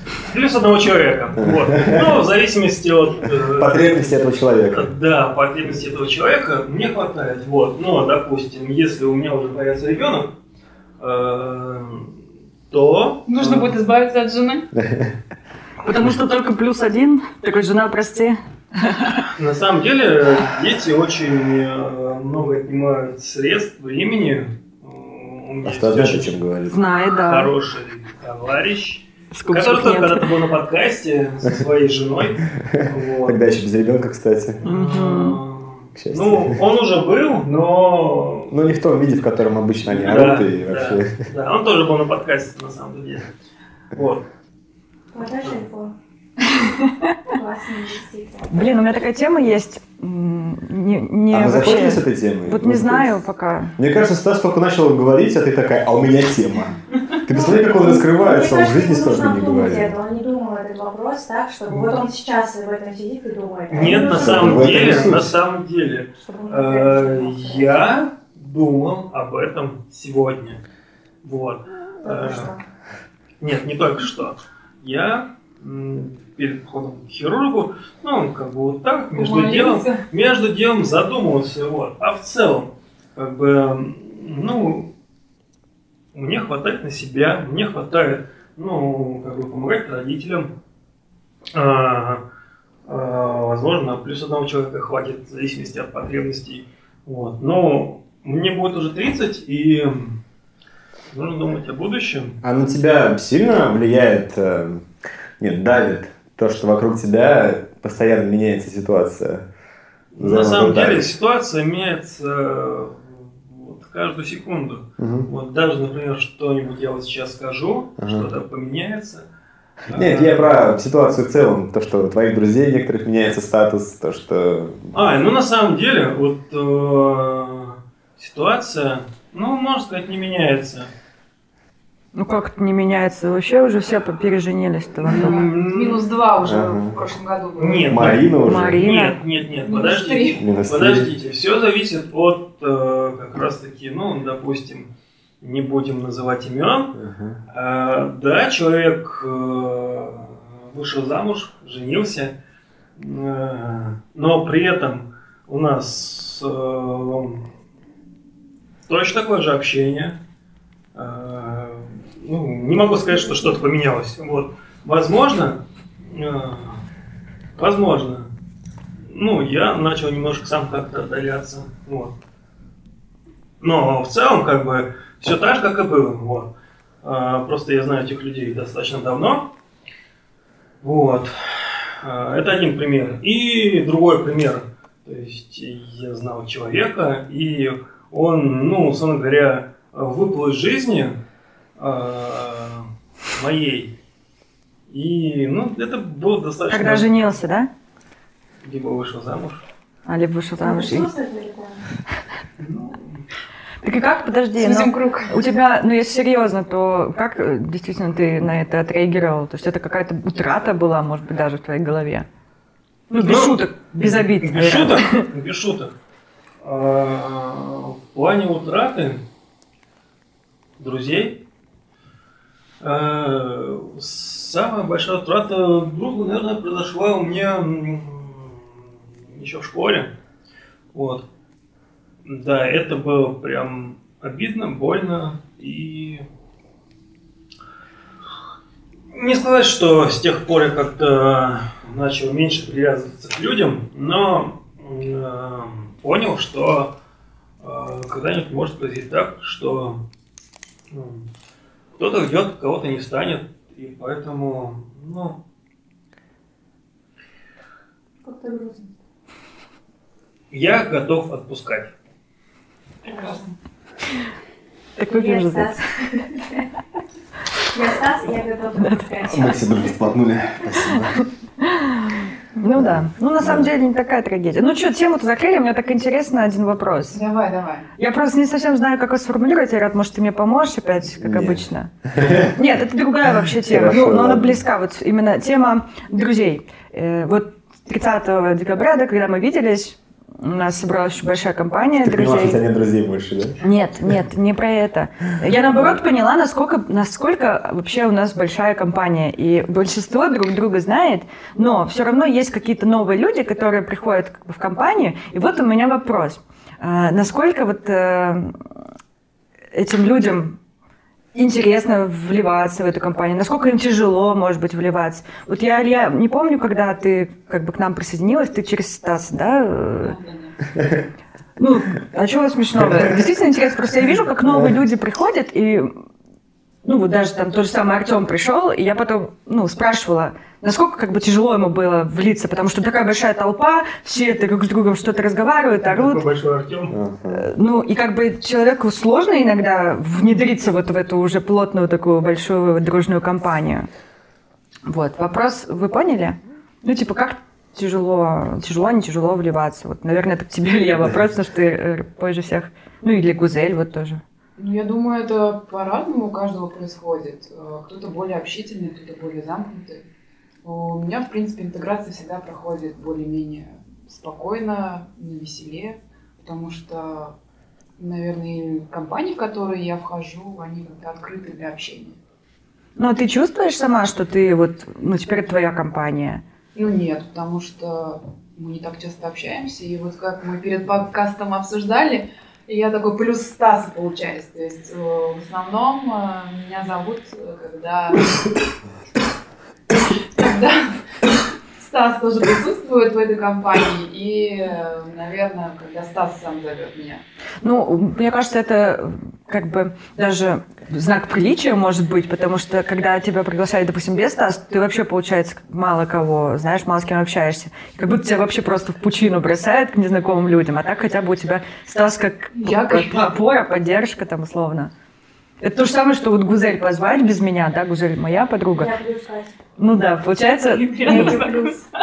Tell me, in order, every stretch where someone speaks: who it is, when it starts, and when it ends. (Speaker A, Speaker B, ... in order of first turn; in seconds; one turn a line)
Speaker A: 0.3-4.1
Speaker B: 1.4-2.2
Speaker B: 3.5-4.9
Speaker A: 4.7-10.3
Speaker A: 11.0-12.2
Speaker A: 12.7-13.8
Speaker C: 13.3-14.7
Speaker B: 14.8-15.2
Speaker D: 15.8-19.2
Speaker A: 19.4-26.4
Speaker B: 25.6-26.8
Speaker D: 26.7-27.5
Speaker A: 27.2-33.4
Speaker D: 29.3-30.3
Speaker B: 32.6-34.6
Speaker A: 34.6-38.6
Speaker D: 34.6-35.4
Speaker B: 36.0-36.6
Speaker B: 38.5-41.2
Speaker A: 39.9-43.3
Speaker A: 43.9-44.2
Speaker E: 45.1-45.9
Speaker E: 47.3-48.7
Speaker D: 48.5-53.8
Speaker B: 51.3-53.2
Speaker B: 53.8-60.0
Speaker E: 57.3-64.9
Speaker A: 63.7-70.6
Speaker B: 64.0-65.3
Speaker E: 66.2-67.8
Speaker A: 71.2-72.5
Speaker E: 72.0-72.6
Speaker A: 73.4-84.9
Speaker C: 79.1-80.0
Speaker A: 86.1-90.5
Speaker A: 91.5-92.2
Speaker A: 92.8-100.2
Speaker A: 101.1-102.4
Speaker B: 102.4-104.8
Speaker B: 105.4-109.5
Speaker A: 110.1-119.3
Speaker B: 110.2-111.2
Speaker B: 115.0-115.3
Speaker B: 118.0-118.3
Speaker A: 119.9-120.7
Speaker B: 119.9-125.0
Speaker A: 124.9-130.9
Speaker D: 132.1-135.4
Speaker C: 135.0-138.2
Speaker A: 135.1-136.1
Speaker B: 136.4-137.0
Speaker A: 137.6-144.9
Speaker B: 137.9-138.8
Speaker D: 138.4-139.2
Speaker C: 139.6-140.4
Speaker B: 140.4-141.1
Speaker A: 145.4-147.0
Speaker B: 146.9-147.4
Speaker A: 147.5-152.4
Speaker A: 153.0-157.5
Speaker A: 158.9-160.2
Speaker A: 160.9-166.8
Speaker A: 167.6-168.3
Speaker A: 169.1-172.2
Speaker A: 173.6-179.5
Speaker A: 180.8-191.2
Speaker A: 191.8-193.9
Speaker A: 194.9-197.2
Speaker D: 196.7-197.7
Speaker A: 198.6-199.7
Speaker D: 200.1-201.1
Speaker E: 200.6-201.8
Speaker A: 202.6-203.2
Speaker D: 203.8-212.3
Speaker C: 204.6-205.3
Speaker D: 213.1-215.3
Speaker A: 213.2-215.9
Speaker A: 216.6-219.2
Speaker A: 220.8-221.4
Speaker A: 222.8-230.1
Speaker A: 230.9-231.3
Speaker A: 232.2-236.2
Speaker A: 239.1-246.9
Speaker A: 247.6-250.0
Speaker A: 250.9-251.3
Speaker A: 252.0-255.4
Speaker E: 258.2-258.9
Speaker A: 260.5-261.9
Speaker E: 263.1-263.4
Speaker C: 263.1-263.4
Speaker D: 265.0-265.8
Speaker E: 265.1-266.6
Speaker E: 267.7-269.6
Speaker D: 268.8-269.2
Speaker B: 269.2-271.2
Speaker D: 271.6-277.2
Speaker B: 272.7-273.7
Speaker C: 277.1-277.9
Speaker D: 278.0-281.9
Speaker B: 281.2-282.5
Speaker D: 282.4-292.6
Speaker B: 283.7-284.6
Speaker B: 292.0-293.6
Speaker D: 293.6-308.6
Speaker B: 295.7-296.0
Speaker D: 309.7-310.6
Speaker D: 311.3-320.1
Speaker C: 320.0-320.6
Speaker D: 321.6-325.9
Speaker B: 324.5-324.7
Speaker D: 326.8-336.2
Speaker A: 335.9-336.9
Speaker B: 336.9-337.5
Speaker D: 337.3-343.9
Speaker D: 344.9-354.2
Speaker C: 354.6-360.0
Speaker C: 360.6-367.3
Speaker C: 368.0-372.2
Speaker D: 373.0-376.4
Speaker C: 376.8-388.3
Speaker C: 390.4-390.9
Speaker C: 391.8-397.2
Speaker D: 397.6-414.9
Speaker C: 412.6-413.3
Speaker D: 415.6-418.9
Speaker E: 418.8-419.6
Speaker D: 419.8-421.5
Speaker C: 420.7-421.9
Speaker E: 421.0-421.8